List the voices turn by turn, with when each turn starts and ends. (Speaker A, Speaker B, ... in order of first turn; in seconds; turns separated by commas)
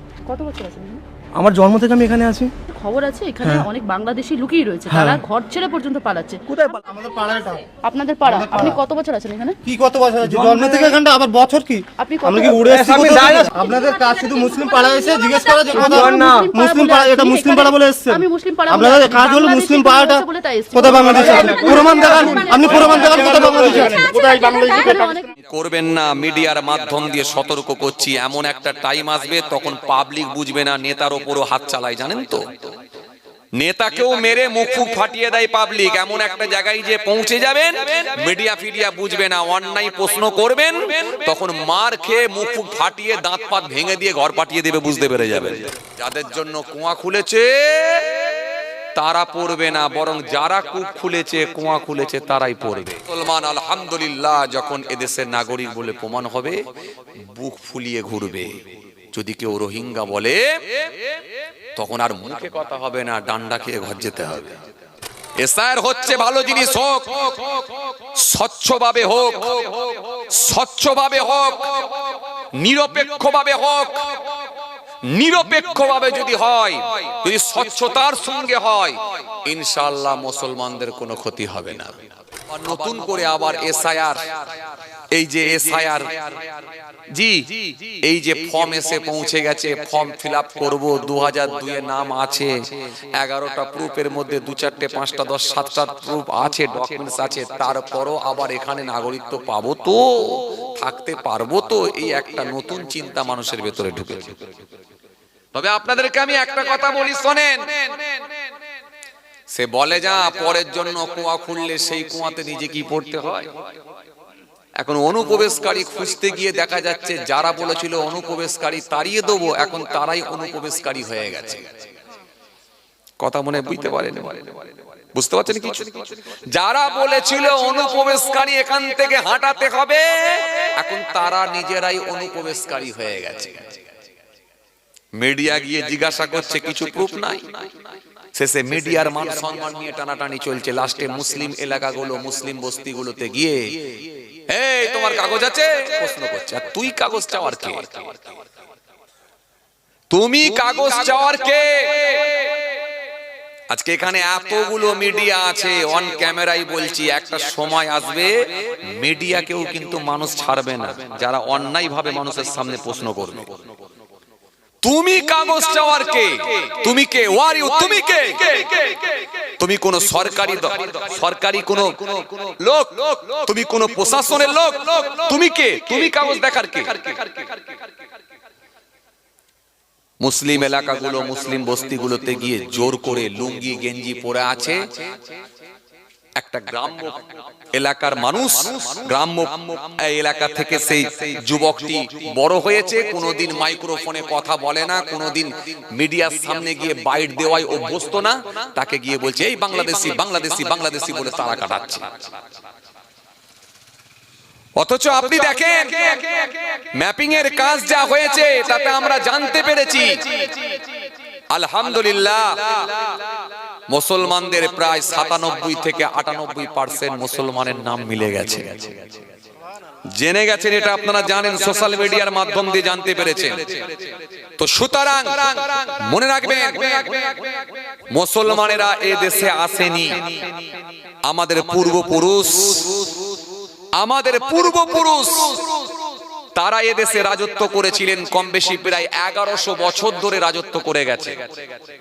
Speaker A: 0.3-1.0, Speaker B: 1.4-2.5, Speaker A: 2.7-9.6, Speaker B: 3.4-3.7, Speaker B: 4.9-5.2, Speaker B: 6.5-6.9, Speaker C: 6.9-7.6, Speaker C: 8.3-8.7, Speaker C: 9.7-17.9, Speaker B: 10.2-13.8, Speaker A: 12.0-12.8, Speaker A: 13.4-25.3, Speaker B: 15.2-18.2, Speaker C: 18.7-20.0, Speaker B: 19.1-20.1, Speaker C: 20.8-25.1, Speaker B: 20.8-24.1, Speaker D: 25.5-32.7, Speaker D: 33.6-48.2, Speaker D: 49.0-56.6, Speaker D: 57.2-58.5, Speaker D: 59.1-60.8, Speaker D: 61.8-64.6, Speaker D: 65.4-72.0, Speaker D: 72.6-74.2, Speaker D: 75.1-82.0, Speaker D: 82.5-84.3, Speaker D: 85.1-86.4, Speaker D: 87.1-92.6, Speaker D: 93.2-104.4, Speaker D: 105.5-108.1, Speaker D: 109.5-113.5, Speaker D: 114.8-121.8, Speaker D: 123.2-133.8, Speaker D: 135.2-137.7, Speaker D: 138.4-148.4, Speaker D: 150.1-152.5, Speaker D: 153.7-163.6, Speaker D: 164.8-177.5, Speaker D: 180.2-184.8, Speaker D: 186.4-202.3, Speaker D: 204.8-210.5, Speaker D: 211.5-213.1, Speaker D: 213.9-219.2, Speaker D: 220.1-224.0, Speaker D: 224.6-227.3, Speaker D: 228.1-230.5, Speaker D: 231.3-233.2, Speaker D: 234.0-235.9, Speaker D: 236.6-241.5